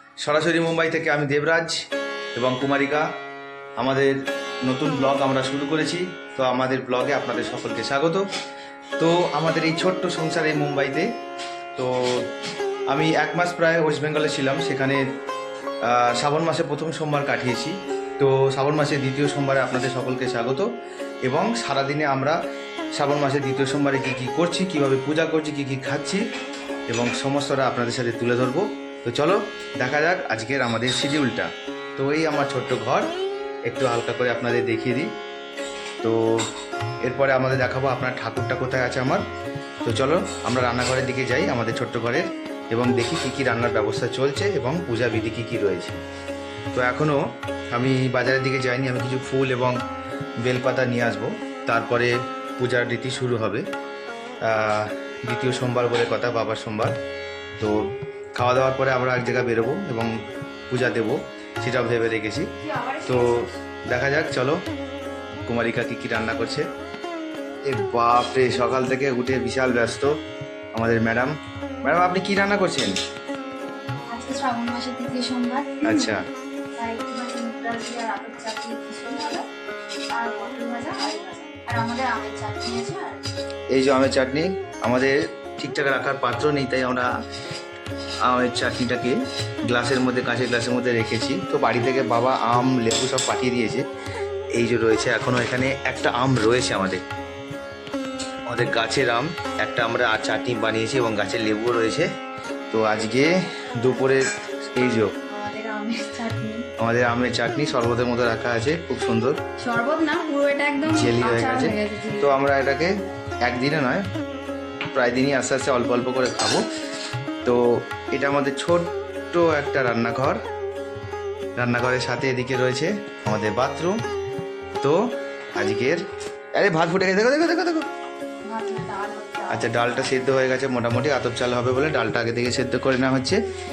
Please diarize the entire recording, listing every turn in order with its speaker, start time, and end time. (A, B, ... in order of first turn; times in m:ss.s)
0:00.2-0:01.8 A
0:02.4-0:03.1 A
0:03.8-0:08.2 A
0:09.0-0:11.1 A
0:11.8-0:12.3 A
0:12.9-0:15.0 A
0:15.8-0:20.7 A
0:21.2-0:22.4 A
0:22.9-0:26.2 A
0:26.9-0:33.1 A
0:33.7-0:35.1 A
0:36.0-0:36.4 A
0:37.0-0:39.2 A
0:39.8-0:46.0 A
0:46.7-0:49.8 A
0:50.4-0:53.6 A
0:54.4-0:57.0 A
0:58.4-1:00.1 A
1:00.7-1:02.5 A
1:02.6-1:03.6 B
1:03.1-1:04.6 A
1:05.4-1:06.6 A
1:07.7-1:10.1 A
1:10.7-1:11.3 A
1:11.8-1:13.0 A
1:14.1-1:16.1 B
1:15.8-1:16.2 A
1:16.8-1:19.4 B
1:20.1-1:23.2 B
1:23.7-1:27.1 A
1:28.2-1:33.8 A
1:34.5-1:37.0 A
1:38.5-1:42.1 A
1:42.7-1:45.2 A
1:45.3-1:46.7 B
1:46.8-1:49.4 A
1:49.6-1:52.4 B
1:50.8-1:52.9 A
1:53.4-1:54.0 A
1:54.9-1:56.6 A
1:57.4-2:00.4 A
2:01.6-2:04.0 A
2:05.5-2:06.0 A
2:06.6-2:07.9 A
2:08.4-2:10.4 B
2:09.5-2:13.4 A